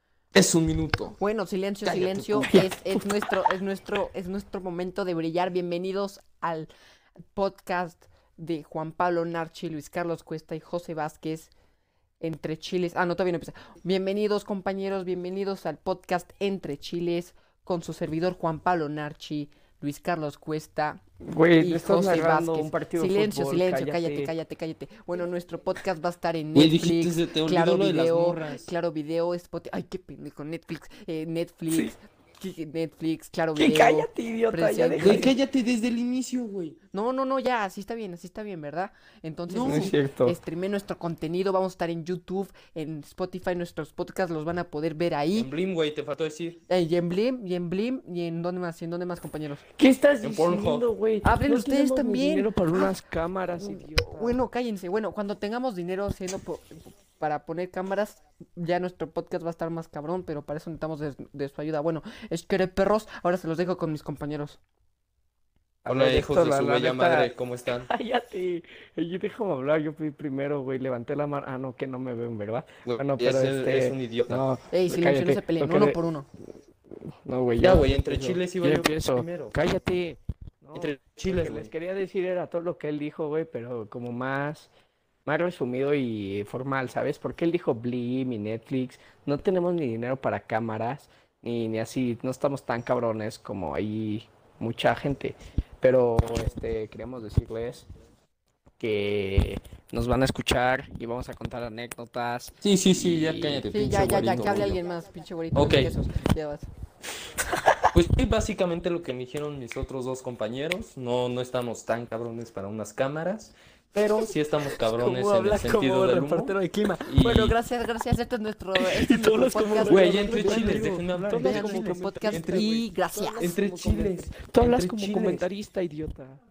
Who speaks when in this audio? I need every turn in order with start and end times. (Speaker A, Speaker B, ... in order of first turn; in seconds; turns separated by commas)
Speaker A: 0.3-1.1, Speaker B: 1.2-6.7, Speaker A: 1.8-2.5, Speaker C: 2.4-3.1, Speaker B: 7.3-11.5, Speaker B: 12.2-21.0, Speaker C: 21.3-24.3, Speaker B: 21.6-35.3, Speaker A: 26.5-28.6, Speaker C: 33.5-35.3, Speaker A: 35.0-36.8, Speaker B: 36.9-45.5, Speaker A: 39.5-39.9, Speaker C: 39.6-40.4, Speaker A: 45.3-46.6, Speaker B: 46.7-49.6, Speaker C: 49.8-54.4, Speaker A: 50.2-50.9, Speaker B: 51.2-52.9, Speaker B: 53.6-64.6, Speaker C: 65.8-76.0, Speaker A: 65.9-67.9, Speaker A: 72.8-74.4, Speaker B: 74.7-76.3, Speaker C: 77.0-84.7, Speaker A: 77.6-79.6, Speaker A: 80.7-81.7, Speaker C: 85.2-97.9, Speaker C: 98.8-104.8, Speaker A: 102.6-104.8, Speaker B: 103.7-106.7, Speaker A: 105.5-106.0, Speaker A: 107.9-117.6, Speaker C: 114.0-117.2, Speaker B: 117.2-123.5, Speaker C: 118.8-126.4, Speaker A: 119.8-122.7, Speaker A: 123.3-125.4